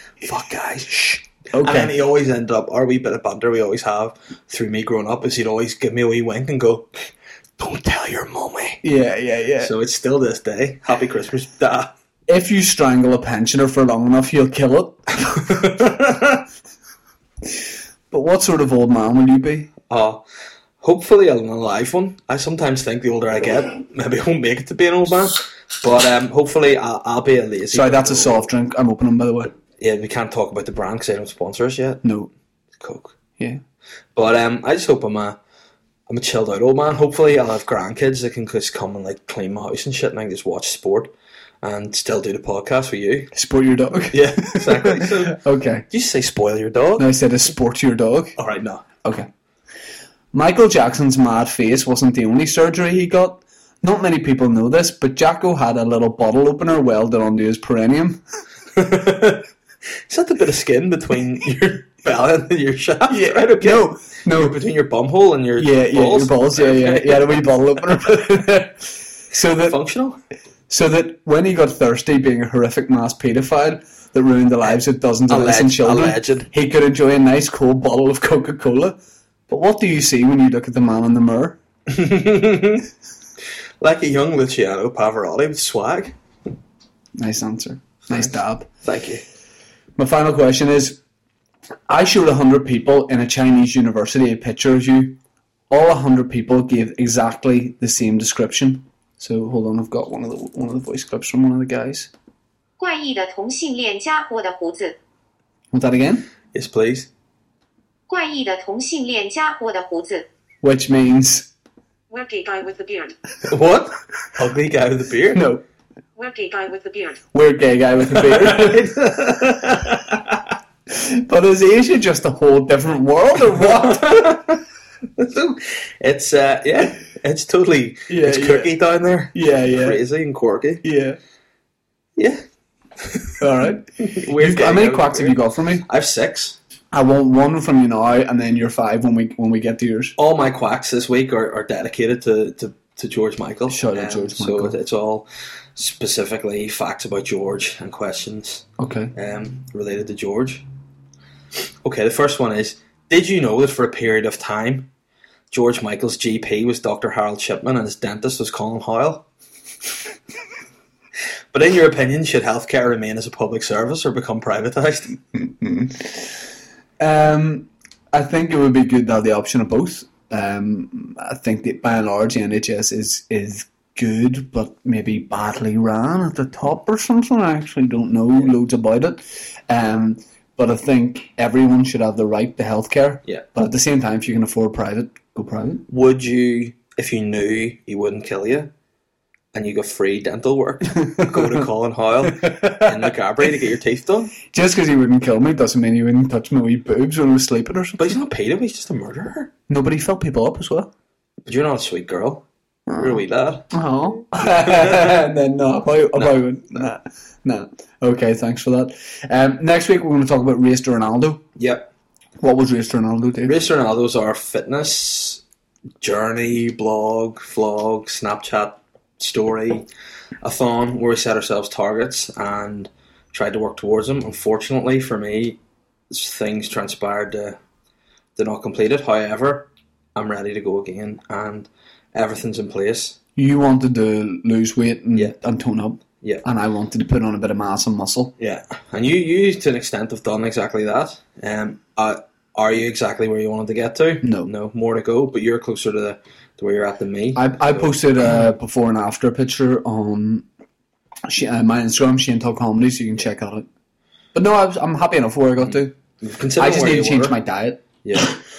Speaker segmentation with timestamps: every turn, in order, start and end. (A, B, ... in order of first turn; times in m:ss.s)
0:00.2-0:08.8 A
0:01.5-0:01.9 B
0:08.8-0:09.7 B
0:09.6-0:11.9 A
0:12.3-0:15.5 B
0:15.5-0:16.4 A
0:18.1-0:19.7 B
0:19.9-0:20.2 A
0:20.8-0:28.4 A
0:27.7-0:29.5 B
0:29.8-0:32.0 A
0:32.0-0:32.3 B
0:32.8-0:33.2 A
0:34.1-0:35.4 A
0:36.1-0:43.3 A
0:43.3-0:45.8 B
0:44.1-0:47.1 A
0:47.0-0:48.3 B
0:48.4-0:48.8 A
0:50.3-0:58.2 B
0:58.7-0:59.5 A
1:00.1-1:07.4 A
1:03.1-1:04.6 B
1:05.6-1:09.8 B
1:09.4-1:10.2 A
1:10.7-1:19.0 B
1:14.6-1:16.5 A
1:19.5-1:21.6 B
1:21.9-1:22.9 A
1:23.8-1:26.2 A
1:27.2-1:28.7 B
1:28.8-1:29.2 A
1:30.0-1:31.0 B
1:31.9-1:35.2 B
1:35.7-1:42.1 B
1:42.8-1:45.0 C
1:45.7-1:46.3 B
1:46.5-1:47.1 A
1:48.1-1:50.2 C
1:50.6-1:51.5 B
1:52.1-1:53.2 C
1:53.4-1:55.4 A
1:55.3-1:55.6 B
1:56.2-1:57.2 C
1:57.3-1:58.9 B
1:58.1-2:00.4 A
2:00.9-2:04.4 B
2:03.6-2:04.6 A
2:05.2-2:10.8 A
2:08.1-2:08.8 B
2:09.3-2:10.0 B
2:10.8-2:11.2 B
2:12.2-2:12.4 A
2:13.0-2:13.3 A
2:13.4-2:15.8 B
2:14.0-2:16.6 A
2:16.9-2:20.1 B
2:20.2-2:30.6 A
2:23.7-2:24.8 B
2:28.8-2:29.1 B
2:31.8-2:34.9 A
2:35.5-2:39.2 A
2:41.5-2:45.2 A
2:45.5-2:46.1 B
2:47.0-3:05.8 B
3:05.9-3:08.7 A
3:09.5-3:14.3 A
3:11.0-3:11.5 B
3:12.4-3:13.1 B
3:14.5-3:18.2 B
3:18.0-3:19.5 A
3:19.7-3:20.9 B
3:21.4-3:22.4 A
3:22.9-3:31.4 B
3:23.0-3:23.7 A
3:24.4-3:25.2 A
3:26.1-3:26.9 A
3:31.6-3:31.9 A
3:32.4-3:33.6 B
3:33.4-3:35.4 A
3:36.0-3:39.9 A
3:40.4-3:45.6 A
3:46.1-3:47.6 A
3:48.4-3:53.2 A
3:53.4-3:58.3 B
3:58.4-4:08.0 A
4:04.2-4:04.5 B
4:07.3-4:10.4 B
4:11.3-4:13.6 B
4:14.3-4:15.9 B
4:15.6-4:17.4 A
4:16.6-4:18.3 B
4:18.0-4:18.4 A